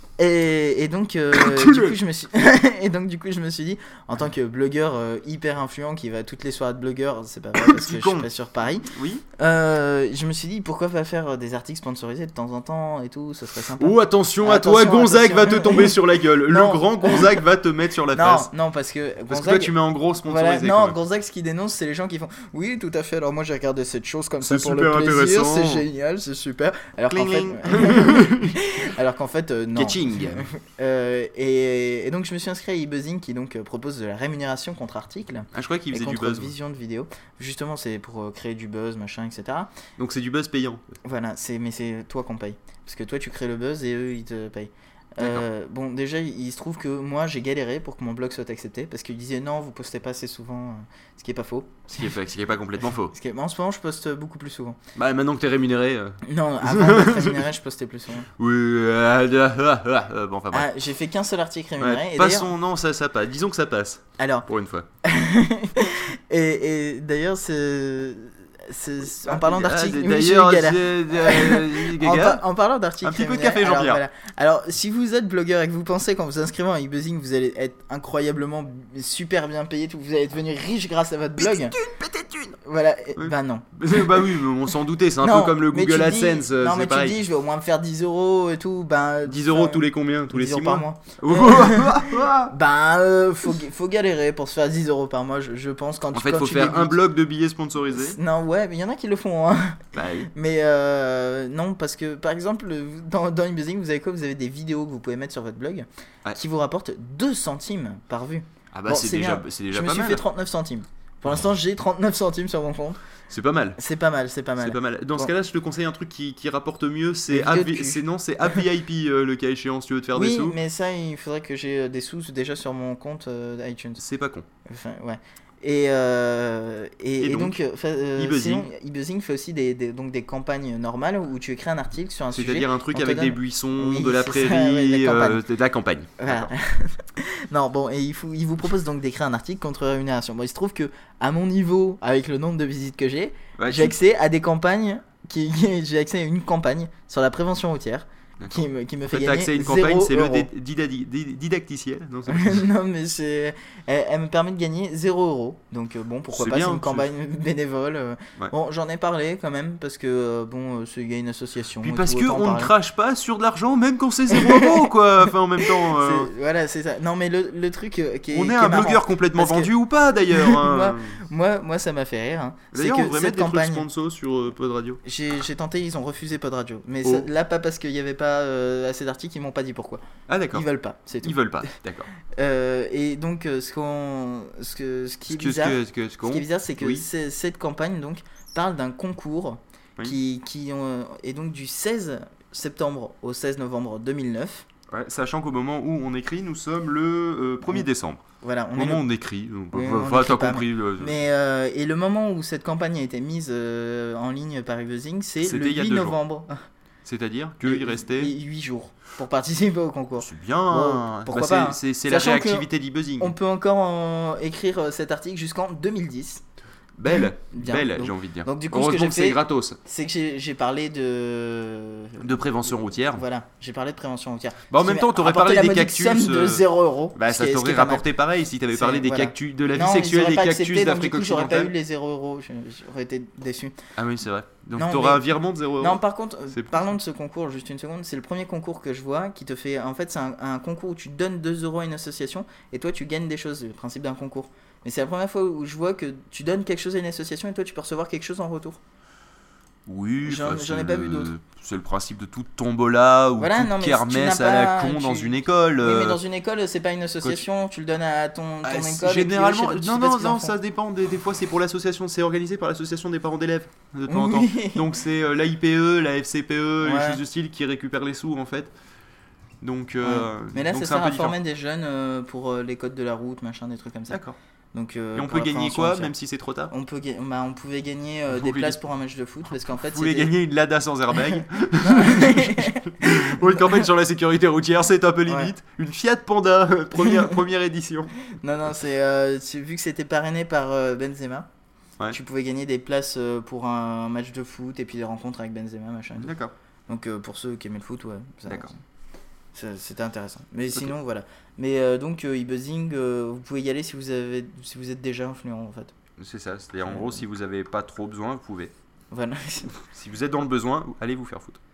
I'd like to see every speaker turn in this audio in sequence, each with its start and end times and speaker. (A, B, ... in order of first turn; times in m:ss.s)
0:00.2-0:15.9 A
0:01.3-0:02.0 B
0:07.6-0:08.3 B
0:08.9-0:09.2 B
0:13.8-0:18.5 B
0:16.5-0:17.3 A
0:18.1-0:19.7 A
0:19.3-0:21.0 B
0:20.2-0:39.7 A
0:24.4-0:25.8 B
0:27.1-0:28.6 B
0:29.7-0:30.4 B
0:35.5-0:36.5 B
0:40.0-0:40.8 B
0:41.0-0:52.1 A
0:51.9-0:53.1 B
0:52.8-0:54.8 A
0:55.0-0:57.5 B
0:56.2-0:58.3 A
0:58.4-1:00.7 B
1:00.5-1:02.5 A
1:01.8-1:04.9 B
1:04.2-1:04.5 A
1:05.0-1:21.8 A
1:09.1-1:12.4 B
1:13.0-1:14.0 B
1:21.4-1:22.6 B
1:22.6-1:24.3 A
1:23.2-1:27.2 B
1:25.2-1:37.0 A
1:29.2-1:32.5 B
1:36.1-1:38.2 B
1:38.0-1:53.0 A
1:39.9-1:40.3 B
1:48.7-1:50.2 B
1:53.3-1:53.8 B
1:53.8-1:55.3 A
1:54.6-2:00.6 B
1:57.3-1:58.6 A
2:00.1-2:04.0 A
2:04.0-2:04.4 B
2:04.7-2:15.4 A
2:07.2-2:07.6 B
2:08.2-2:08.7 B
2:12.3-2:16.5 B
2:16.2-2:30.5 A
2:23.6-2:24.0 B
2:28.4-2:32.6 B
2:32.3-2:42.7 A
2:36.3-2:37.1 B
2:41.8-2:46.3 B
2:44.3-2:44.9 A
2:45.6-2:49.7 A
2:48.3-2:51.2 B
2:50.3-2:53.8 A
2:52.7-2:55.0 B
2:55.0-3:00.0 A
2:57.0-2:57.3 B
3:00.3-3:00.6 B
3:00.5-3:01.7 A
3:01.2-3:02.1 B
3:02.4-3:14.6 A
3:05.3-3:07.0 B
3:14.9-3:18.2 B
3:18.4-3:19.0 A
3:18.7-3:21.1 B
3:19.7-3:26.5 A
3:25.4-3:26.2 B
3:27.0-3:28.3 B
3:27.6-3:32.7 A
3:30.2-3:33.3 B
3:33.2-3:36.4 A
3:37.0-3:39.8 B
3:37.1-3:48.1 A
3:42.2-3:43.2 B
3:44.7-3:51.7 B
3:48.7-3:53.8 A
3:54.0-3:56.8 B
3:54.8-3:55.3 A
3:55.8-4:08.8 A
4:09.8-4:16.2 B
4:10.2-4:11.3 A
4:13.4-4:20.6 A
4:18.6-4:28.7 B
4:24.1-4:24.8 A
4:26.8-4:27.2 A
4:29.6-4:31.4 B
4:30.0-4:34.2 A
4:34.1-4:34.4 B
4:34.7-4:36.1 A
4:35.1-4:36.7 B
4:36.7-4:40.3 A
4:38.3-4:38.8 B
4:39.9-4:48.1 B
4:41.8-4:43.8 A
4:45.3-4:45.5 A
4:47.1-4:47.3 A
4:48.4-4:51.5 A
4:52.1-4:56.3 A
4:56.2-4:56.5 B
4:56.9-4:58.8 A
4:59.5-5:05.9 A
5:06.2-5:08.7 B
5:06.8-5:07.2 A
5:09.1-5:09.7 A
5:09.8-5:11.6 B